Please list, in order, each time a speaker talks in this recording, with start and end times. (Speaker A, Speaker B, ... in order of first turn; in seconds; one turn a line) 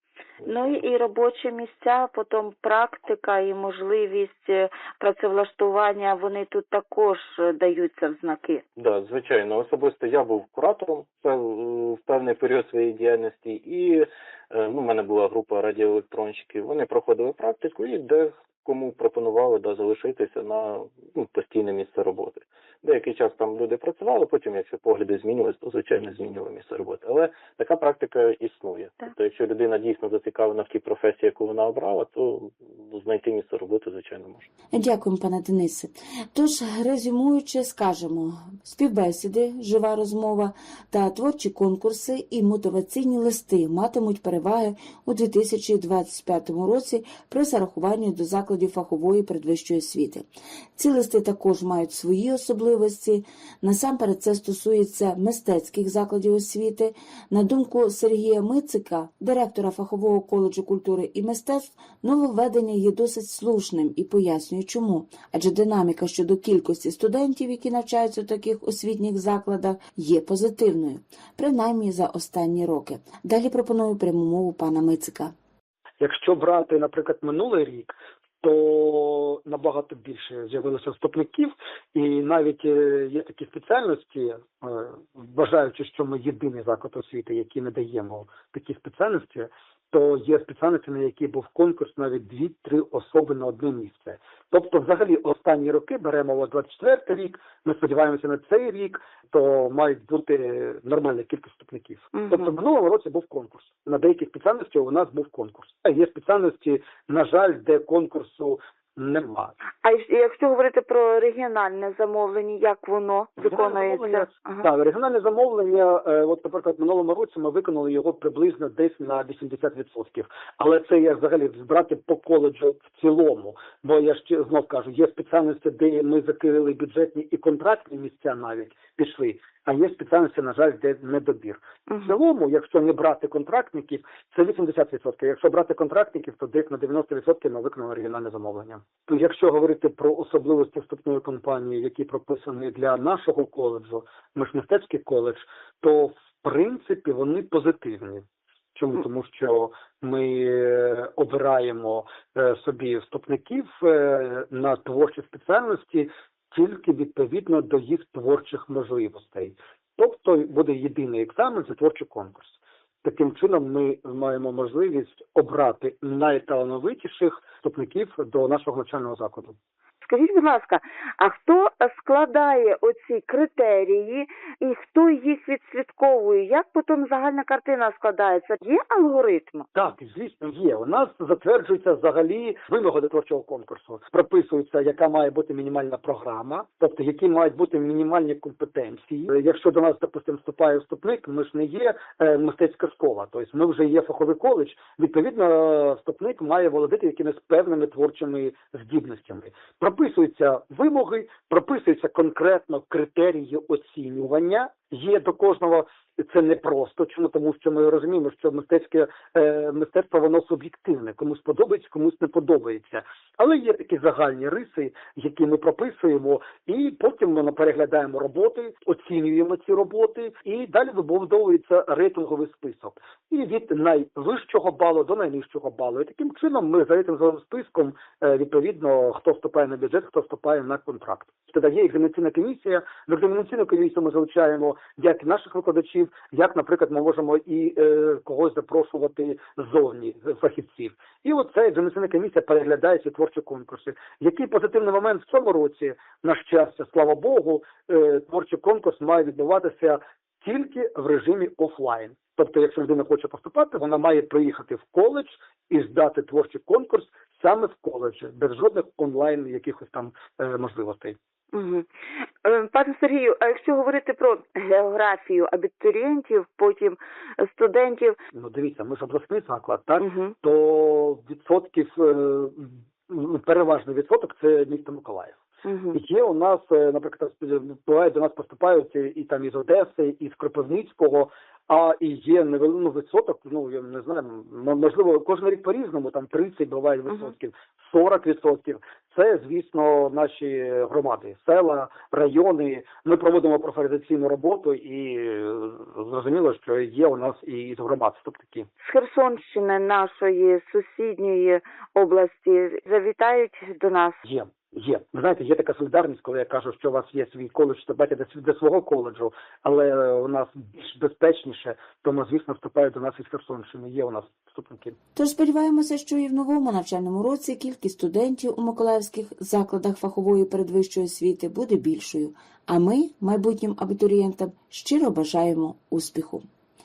Speaker A: 0.4-0.8
Speaker B: 0.4-8.6
Speaker A: 8.8-34.5
Speaker C: 34.7-50.2
Speaker C: 50.8-75.3
Speaker D: 76.0-109.5
Speaker B: 102.1-102.5
Speaker B: 109.8-114.7
Speaker D: 113.4-148.2
Speaker B: 131.9-132.2
Speaker D: 148.7-169.6
Speaker B: 170.0-179.7
Speaker D: 179.7-261.2
Speaker B: 261.5-261.9
Speaker B: 262.4-268.2
Speaker D: 268.3-275.4
Speaker B: 270.0-270.3
Speaker B: 275.6-276.0
Speaker D: 275.9-298.7
Speaker B: 287.1-287.3
Speaker B: 298.8-304.2
Speaker D: 304.2-314.9
Speaker C: 315.1-326.4